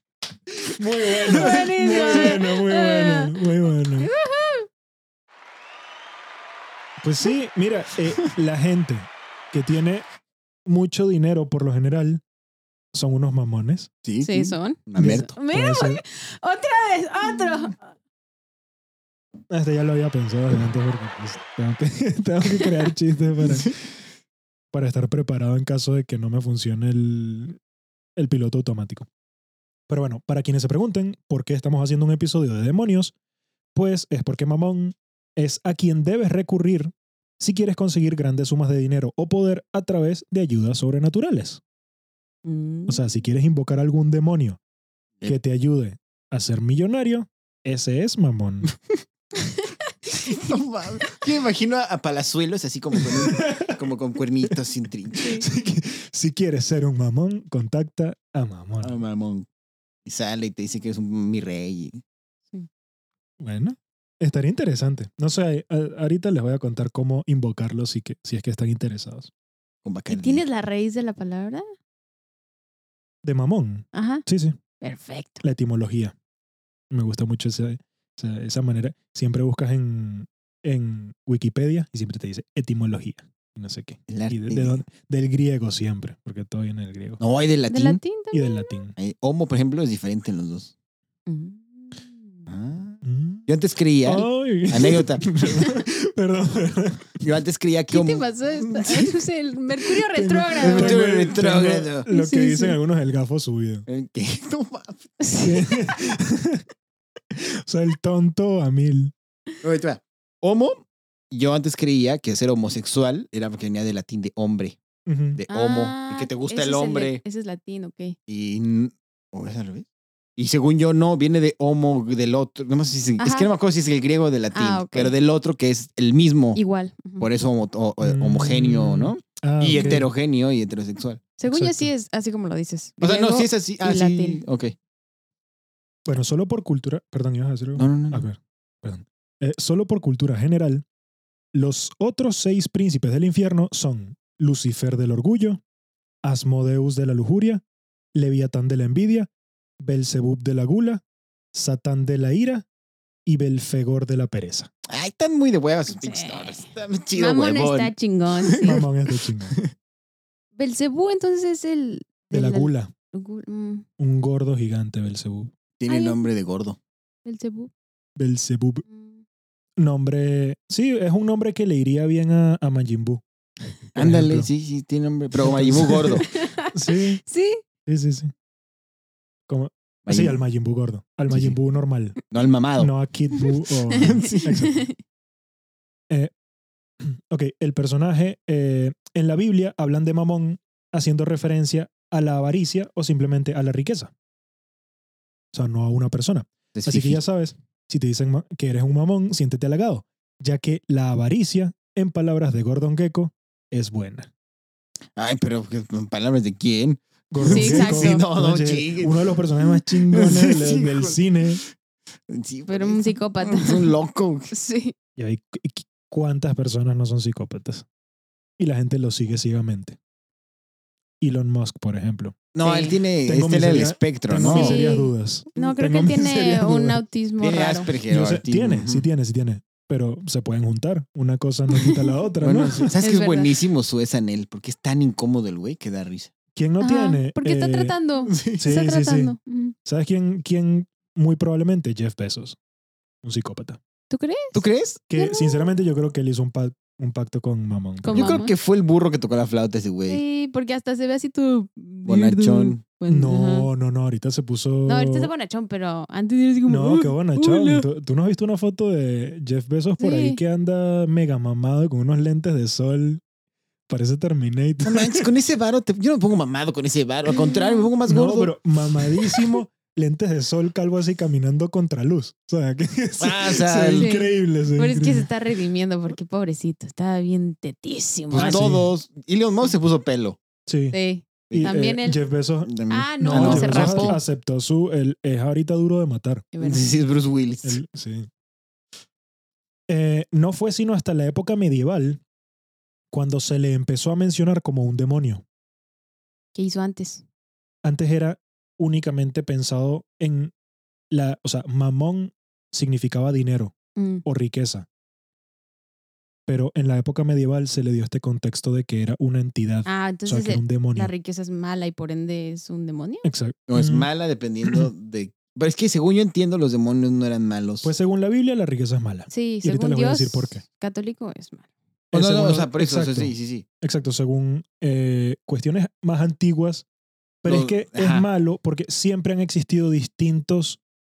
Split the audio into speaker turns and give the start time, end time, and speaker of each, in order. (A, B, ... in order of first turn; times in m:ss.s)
0:00.7-0:04.1 A
0:01.3-0:03.4 B
0:04.0-0:04.7 B
0:07.0-0:10.1 A
0:10.7-0:12.2 A
0:12.9-0:13.9 A
0:14.0-0:15.3 C
0:14.2-0:17.9 B
0:15.0-0:16.0 A
0:19.5-0:23.8 A
0:23.4-0:23.7 C
0:24.7-0:27.6 A
0:28.2-0:29.1 A
0:29.9-0:33.1 A
0:33.7-0:41.6 A
0:42.4-0:43.0 B
0:42.9-0:44.6 A
0:45.2-0:48.7 A
0:49.4-0:50.5 B
0:50.1-0:55.3 C
0:53.1-0:53.8 A
0:55.2-0:55.4 B
0:55.3-0:59.0 A
0:58.8-0:59.5 C
1:00.0-1:02.0 C
1:03.4-1:09.3 A
1:09.8-1:10.4 C
1:10.1-1:11.6 B
1:13.2-1:14.6 A
1:13.9-1:14.2 B
1:14.8-1:15.4 B
1:15.4-1:16.1 A
1:16.9-1:27.2 A
1:24.1-1:24.8 C
1:27.2-1:28.0 C
1:27.7-1:28.8 B
1:28.3-1:28.9 A
1:29.0-1:30.7 C
1:31.3-1:32.5 B
1:32.5-1:35.3 C
1:33.0-1:33.5 A
1:34.0-1:37.2 A
1:37.2-1:39.2 C
1:37.9-1:41.0 B
1:40.1-1:43.8 A
1:40.6-1:42.1 C
1:42.1-1:42.8 B
1:43.9-1:45.1 C
1:45.2-1:45.8 B
1:45.4-1:46.6 A
1:47.3-1:49.1 A
1:49.6-1:54.8 C
1:55.0-1:55.4 A
1:55.4-1:57.2 C
1:55.5-1:58.2 B
1:58.3-1:59.8 C
2:00.4-2:06.6 C
2:03.2-2:03.5 B
2:04.5-2:05.1 B
2:06.6-2:07.3 B
2:07.2-2:11.2 C
2:08.0-2:10.1 A
2:09.7-2:10.0 B
2:11.4-2:14.4 B
2:11.5-2:11.9 A
2:13.0-2:14.7 C
2:16.0-2:20.8 A
2:17.8-2:18.3 C
2:21.5-2:25.6 A
2:26.2-2:27.6 A
2:28.1-2:31.0 A
2:31.5-2:32.6 A
2:33.2-2:34.7 A
2:34.9-2:38.9 C
2:35.9-2:38.8 B
2:38.6-2:39.6 A
2:40.6-2:43.8 B
2:42.3-2:42.9 A
2:44.0-2:45.5 A
2:45.8-2:46.8 C
2:45.9-2:46.2 B
2:47.2-2:47.7 B
2:48.2-2:48.8 A
2:48.9-2:49.2 B
2:49.8-2:53.2 A
2:53.9-2:54.5 A
2:53.9-2:56.3 C
2:55.4-2:57.2 A
2:56.2-2:57.6 B
2:57.8-2:58.3 A
2:59.5-3:02.2 A
3:00.0-3:00.4 C
3:01.3-3:01.6 C
3:02.3-3:02.9 C
3:02.8-3:04.9 A
3:03.9-3:05.0 B
3:04.0-3:04.4 C
3:07.0-3:14.1 A
3:15.5-3:24.3 A
3:16.7-3:17.2 C
3:25.2-3:31.2 C
3:27.3-3:31.6 A
3:27.4-3:28.2 B
3:32.3-3:34.5 C
3:32.7-3:33.9 B
3:34.5-3:34.9 B
3:35.2-3:37.8 A
3:38.6-3:40.0 A
3:41.2-3:42.4 A
3:42.5-3:44.8 C
3:42.6-3:43.0 B
3:43.2-3:47.0 A
3:44.4-3:47.9 B
3:47.4-3:49.0 C
3:48.1-3:52.9 A
3:52.4-3:56.3 C
3:53.0-3:53.5 B
3:56.5-3:58.0 A
3:56.8-3:59.7 B
3:58.2-3:58.6 C
3:58.5-3:59.3 A
3:59.8-4:02.6 A
4:03.2-4:03.8 A
4:04.1-4:05.7 B
4:04.5-4:05.0 C
4:05.1-4:08.4 A
4:08.0-4:08.5 B
4:08.1-4:10.2 C
4:10.1-4:13.7 B
4:12.0-4:12.8 C
4:13.1-4:15.3 A
4:14.8-4:17.8 B
4:16.6-4:23.2 A
4:20.0-4:20.4 B
4:23.9-4:25.3 A
4:24.8-4:28.5 C
4:27.3-4:27.9 B
4:28.1-4:35.3 A
4:33.2-4:34.1 C
4:34.0-4:38.7 B
4:38.3-4:40.4 C
4:38.4-4:38.9 A
4:40.7-4:41.0 A
4:40.9-4:42.2 B
4:41.5-4:41.8 C
4:41.5-4:46.5 A
4:42.6-4:44.2 C
4:42.9-4:44.2 B
4:46.5-4:46.8 B
4:46.6-4:47.8 C
4:47.6-4:48.3 A
4:49.9-4:52.2 A
4:53.1-4:55.4 A
4:56.5-4:57.2 B
4:57.8-5:00.5 A
5:01.1-5:04.9 A
5:04.0-5:04.2 B
5:06.5-5:11.1 A
5:09.8-5:13.3 B
5:13.2-5:14.1 A
5:13.7-5:17.9 C
5:17.8-5:20.6 A
5:19.3-5:21.7 B
5:22.1-5:26.8 A
5:22.1-5:23.6 C
5:27.4-5:30.8 A
5:27.4-5:28.3 C